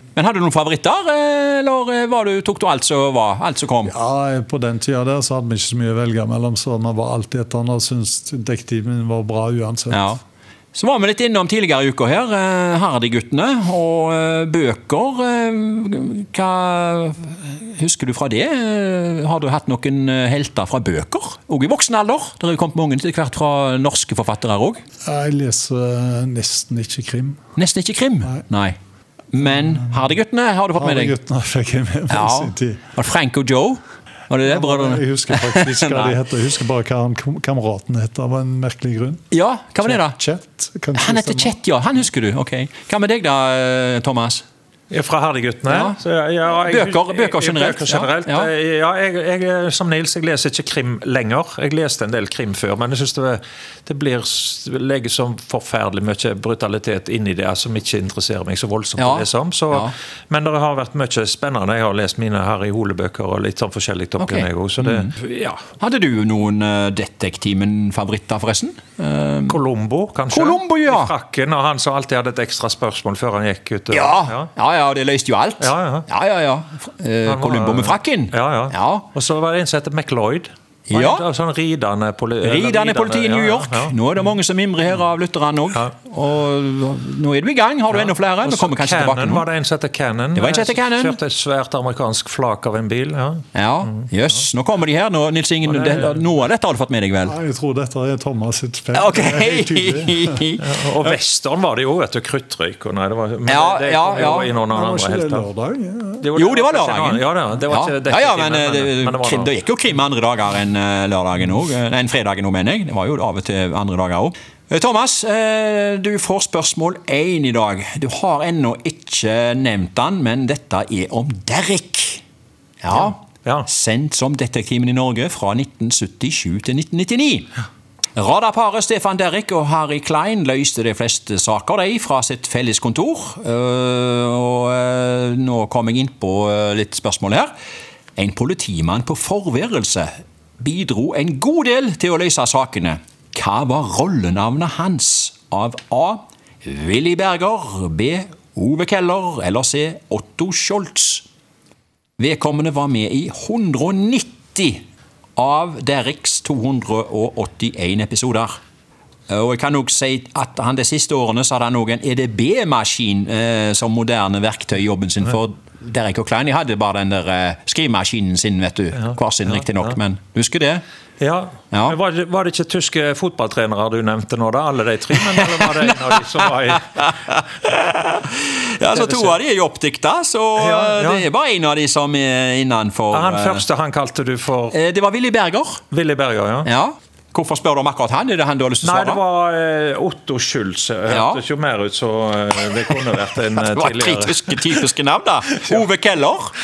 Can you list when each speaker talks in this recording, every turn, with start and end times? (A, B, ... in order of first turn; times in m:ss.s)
0:00.1-0:03.9 A
0:03.8-0:10.1 B
0:09.9-0:10.2 A
0:10.7-0:24.8 A
0:25.0-0:27.4 B
0:27.6-0:28.8 A
0:29.3-0:31.1 A
0:30.7-0:32.8 B
0:32.1-0:36.2 A
0:34.4-0:39.2 B
0:39.3-0:40.2 A
0:39.8-0:41.5 B
0:40.9-0:44.4 A
0:44.9-1:05.6 C
0:45.6-0:46.0 A
0:46.6-0:48.5 A
0:59.0-0:59.9 A
1:04.2-1:05.1 A
1:05.8-1:09.6 A
1:09.5-1:14.5 C
1:10.3-1:11.1 A
1:13.9-1:19.1 A
1:15.6-1:16.1 C
1:17.2-1:24.0 C
1:20.9-1:21.2 A
1:22.4-1:29.4 A
1:27.9-1:33.4 C
1:30.3-1:31.2 A
1:33.5-1:37.4 A
1:35.6-1:36.2 C
1:37.2-1:40.4 B
1:38.9-1:40.6 A
1:40.6-1:45.4 C
1:43.5-1:44.5 A
1:44.7-1:46.2 B
1:46.2-1:49.5 C
1:46.4-2:02.2 A
2:02.8-2:07.5 A
2:02.9-2:03.7 C
2:08.1-2:17.5 A
2:18.2-2:31.2 A
2:32.2-2:34.8 A
2:35.4-2:38.5 A
2:39.3-2:50.8 A
2:49.0-2:50.0 C
2:51.2-2:56.8 C
2:51.7-2:52.0 A
2:55.4-3:03.6 A
2:58.9-2:59.4 C
3:00.6-3:01.2 C
3:03.1-3:04.7 C
3:04.7-3:05.8 A
3:05.9-3:06.7 C
3:06.6-3:09.2 A
3:08.8-3:14.8 C
3:11.1-3:11.4 A
3:13.6-3:16.5 A